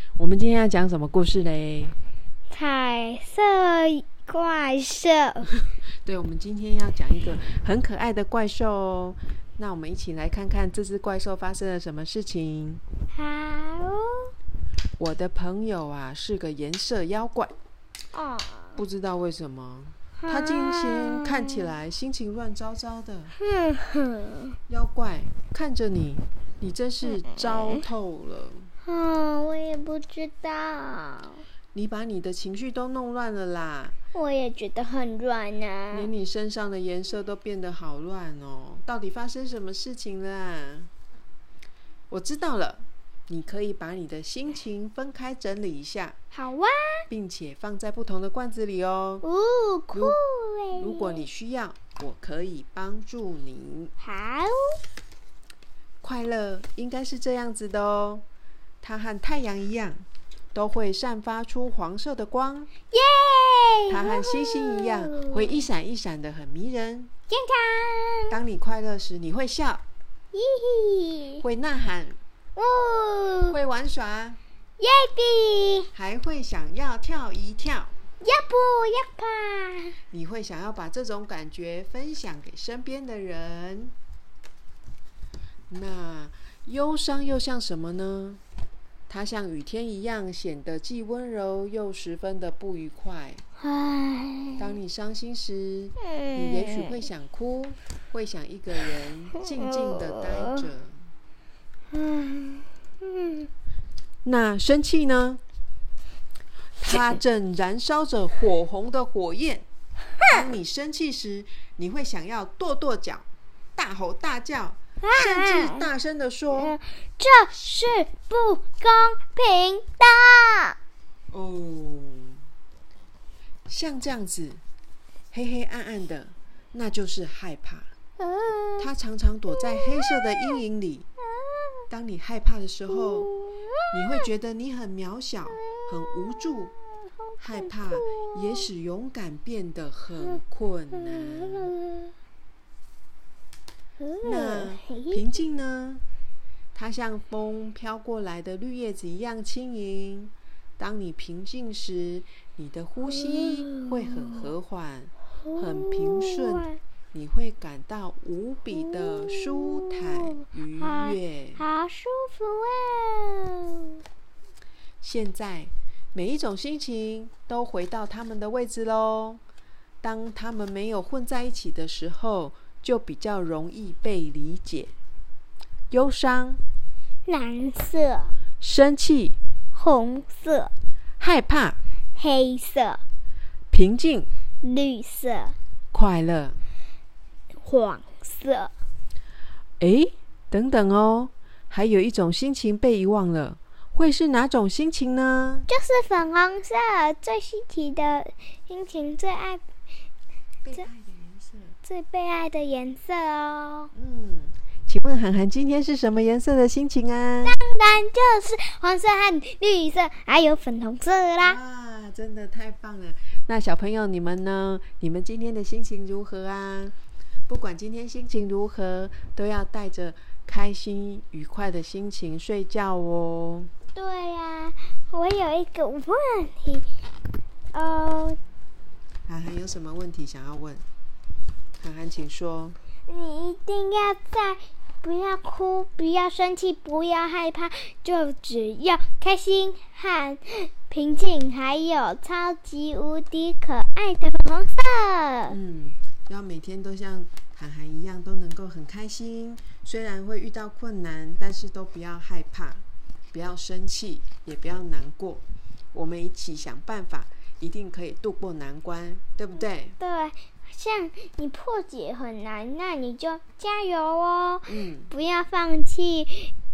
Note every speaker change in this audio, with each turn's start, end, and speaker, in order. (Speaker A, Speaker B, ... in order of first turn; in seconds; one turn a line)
Speaker A: 0.2-1.9
Speaker B: 2.5-5.5
Speaker A: 6.0-12.8
Speaker B: 13.1-14.3
Speaker A: 15.0-17.5
Speaker B: 18.1-18.8
Speaker A: 18.8-23.4
Speaker B: 20.2-21.7
Speaker B: 23.4-24.6
Speaker A: 24.7-28.7
Speaker B: 28.8-31.4
Speaker A: 31.7-33.9
Speaker B: 34.1-36.1
Speaker A: 35.9-40.9
Speaker A: 42.1-46.1
Speaker B: 46.3-47.1
Speaker A: 47.1-49.2
Speaker B: 49.2-51.2
Speaker A: 50.8-53.9
Speaker B: 54.0-54.8
Speaker A: 56.0-58.2
Speaker A: 58.8-62.7
Speaker B: 62.9-65.6
Speaker A: 63.9-67.1
Speaker B: 67.3-68.3
Speaker A: 68.3-69.8
Speaker B: 70.3-71.4
Speaker A: 71.4-72.2
Speaker B: 72.5-73.6
Speaker A: 73.5-74.4
Speaker B: 74.8-75.9
Speaker A: 75.9-77.9
Speaker B: 78.2-80.0
Speaker A: 80.1-83.9
Speaker A: 85.7-88.4
Speaker A: 89.1-93.4
Speaker B: 93.6-94.7
Speaker A: 94.6-101.0
Speaker B: 96.0-97.0
Speaker B: 99.4-100.6
Speaker B: 101.9-103.5
Speaker A: 104.2-105.4
Speaker A: 106.8-109.7
Speaker A: 110.3-116.8
Speaker B: 115.0-115.9
Speaker B: 116.5-120.8
Speaker A: 121.3-122.4
Speaker A: 123.7-124.6
Speaker A: 125.3-127.9
Speaker B: 128.2-128.9
Speaker A: 128.8-131.1
Speaker B: 129.5-130.6
Speaker B: 131.4-131.8
Speaker A: 131.9-133.3
Speaker B: 132.9-134.2
Speaker A: 133.9-136.7
Speaker B: 135.6-138.7
Speaker A: 137.4-141.7
Speaker B: 140.9-142.1
Speaker B: 144.0-145.2
Speaker A: 144.2-146.0
Speaker A: 146.7-161.6
Speaker B: 153.1-154.4
Speaker B: 155.4-156.8
Speaker B: 158.7-164.0
Speaker A: 165.0-169.4
Speaker A: 170.0-174.9
Speaker A: 175.9-176.6
Speaker B: 177.2-178.3
Speaker A: 178.6-179.3
Speaker B: 179.7-180.7
Speaker A: 181.2-181.8
Speaker B: 182.2-183.0
Speaker A: 183.7-184.3
Speaker B: 184.6-185.6
Speaker A: 185.9-186.6
Speaker B: 187.6-188.7
Speaker A: 189.8-195.7
Speaker B: 195.7-199.6
Speaker A: 200.6-201.8
Speaker B: 201.8-203.9
Speaker A: 203.9-207.6
Speaker B: 207.4-211.6
Speaker A: 211.4-216.9
Speaker A: 217.5-223.7
Speaker B: 223.9-226.9
Speaker B: 227.7-228.4
Speaker A: 229.3-230.8
Speaker A: 231.8-232.8
Speaker B: 233.1-245.6
Speaker A: 245.5-260.0
Speaker B: 260.0-266.5
Speaker A: 264.6-265.1